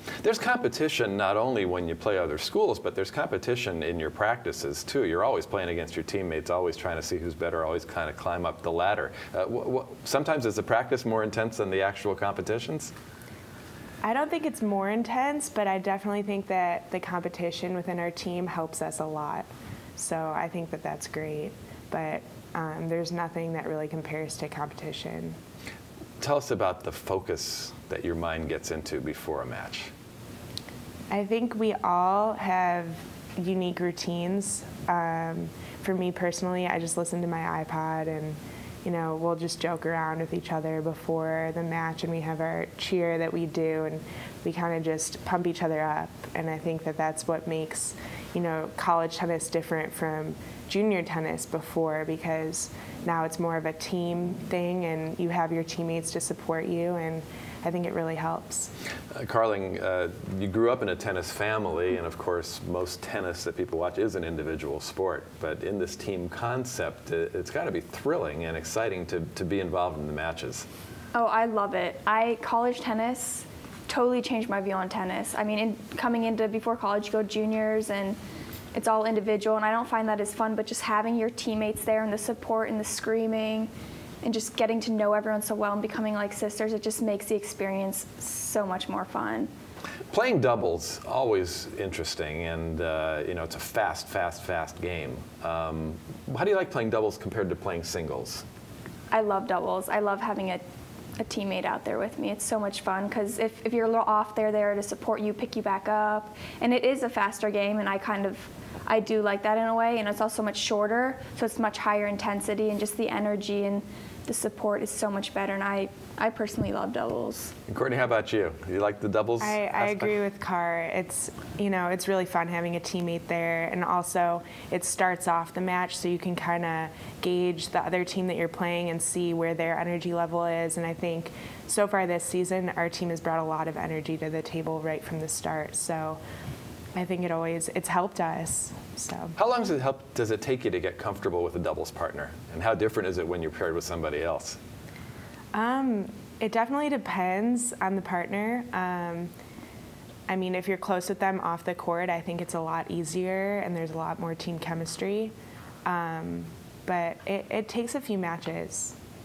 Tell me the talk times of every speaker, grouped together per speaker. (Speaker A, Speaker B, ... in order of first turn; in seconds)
Speaker A: 0.2-12.9, 26.2-29.9, 59.1-70.7, 90.1-98.4, 117.7-120.1, 139.4-144.6
Speaker B: 14.0-25.4, 31.1-58.7, 119.4-136.2, 136.9-139.3, 145.5-149.3, 150.3-155.3, 155.8-159.0
Speaker C: 71.1-78.2, 78.7-83.7, 84.2-89.5, 99.1-100.7, 101.2-117.5